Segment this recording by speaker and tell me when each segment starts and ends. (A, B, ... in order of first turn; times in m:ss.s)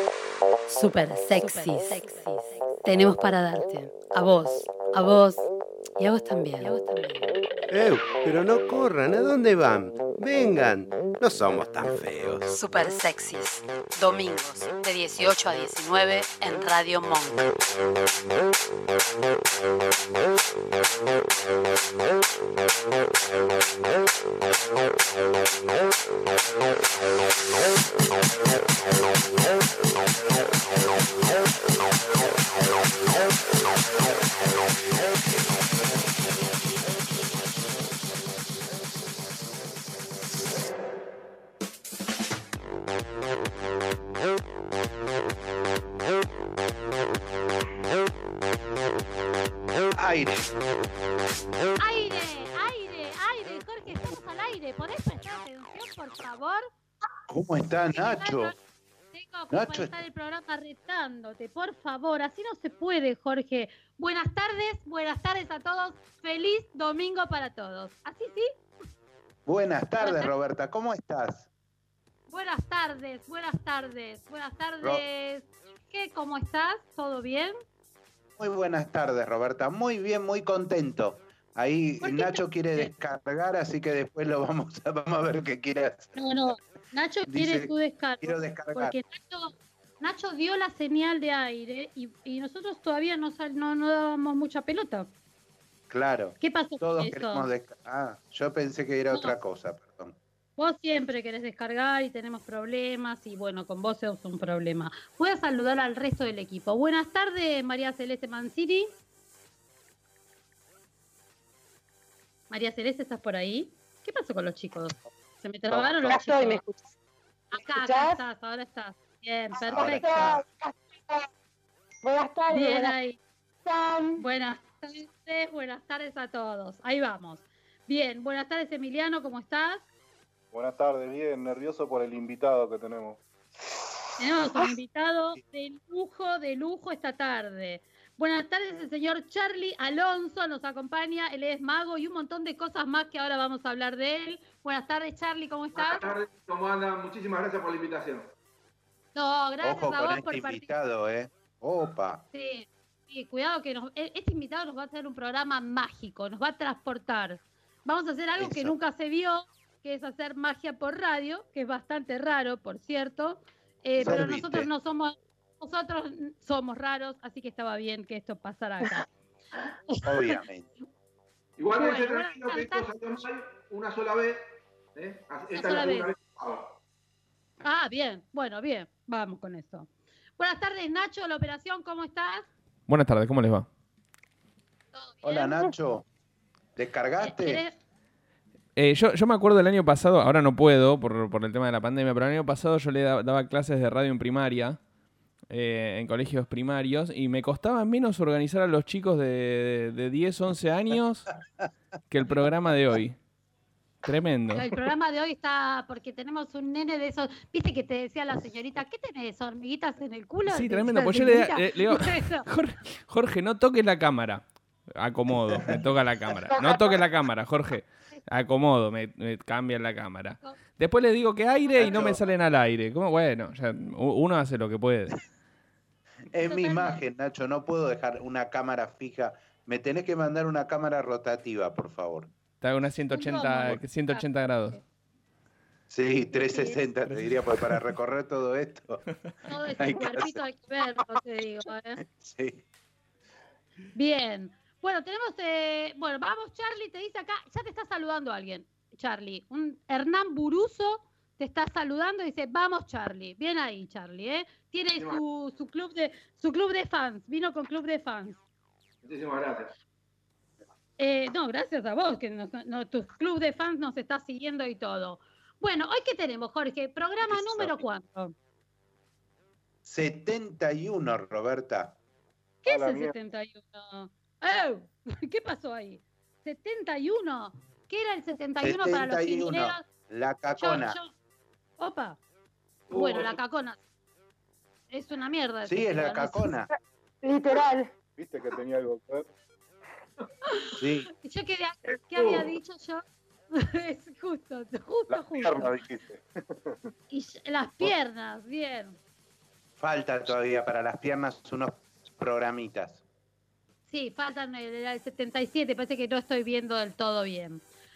0:00.7-0:05.4 A
0:01.3-0:02.2 B
0:06.0-0:07.3 A
0:07.7-0:12.4 C
0:12.5-0:17.4 A
0:50.0-0:50.5 D
0:51.8-0:56.7 B
0:57.3-0:58.5 D
0:57.9-0:58.5 B
0:59.1-1:08.5 B
0:59.5-0:59.9 D
1:09.4-1:11.5 D
1:10.0-1:10.3 B
1:12.3-1:17.5 B
1:18.4-1:26.5 D
1:22.0-1:22.9 B
1:26.2-1:35.1 B
1:27.3-1:29.0 D
1:35.9-1:40.2 D
1:36.4-1:37.5 B
1:40.6-1:48.9 B
1:52.5-1:56.6 B
1:55.7-1:56.1 D
1:56.0-1:56.9 E
1:57.5-2:00.4 B
1:57.6-1:58.2 E
1:59.6-2:01.3 E
1:59.7-2:00.4 D
2:02.0-2:02.9 E
2:02.5-2:03.2 B
2:03.6-2:04.2 E
2:04.2-2:09.8 B
2:10.5-2:13.2 F
2:14.2-2:26.1 B
2:25.7-2:28.3 G
2:29.1-2:30.7 B
2:29.6-2:32.2 D
2:32.3-2:49.0 B
2:38.4-2:38.7 D
2:44.0-2:44.7 D
2:49.9-2:50.4 B
2:50.0-2:50.7 D
2:51.6-2:54.4 G
2:51.7-2:52.8 B
2:54.9-2:56.7 G
2:55.5-2:56.1 B
2:57.6-3:02.5 B
3:02.9-3:03.7 H
3:04.9-3:05.5 B
3:05.2-3:06.1 D
3:06.8-3:07.6 D
3:07.2-3:07.8 B
3:08.8-3:14.8 H
3:15.5-3:21.3 H
3:22.1-3:23.2 H
3:24.0-3:24.6 H
3:24.5-3:32.4 B
3:30.5-3:45.2 H
3:35.5-3:35.8 D
3:36.6-3:36.9 E
3:41.8-3:42.2 D
3:46.3-3:52.3 D
3:46.4-3:47.0 B
3:52.6-3:54.8 H
3:53.1-3:54.8 B
3:55.9-3:59.1 D
3:56.3-3:56.8 B
3:59.5-4:02.0 B
3:59.7-4:00.4 D
4:02.0-4:02.6 D
4:03.9-4:18.4 B
4:19.0-4:19.7 G
4:21.0-4:28.3 B
4:27.2-4:27.8 D
4:29.8-4:32.0 D
4:32.6-4:39.8 B
4:32.6-4:33.2 F
4:38.6-4:41.0 D
4:40.6-4:41.1 B
4:41.8-4:42.2 B
4:42.9-4:43.4 G
4:42.9-4:43.8 B
4:44.9-4:46.5 B
4:45.6-4:46.7 D
4:47.2-4:47.9 E
4:48.2-4:49.3 F
4:50.5-4:55.8 B
4:50.8-4:51.1 D
4:51.9-4:52.5 G
4:55.1-4:56.8 F
4:57.1-4:59.0 B
4:59.8-5:03.0 D
5:03.9-5:07.6 B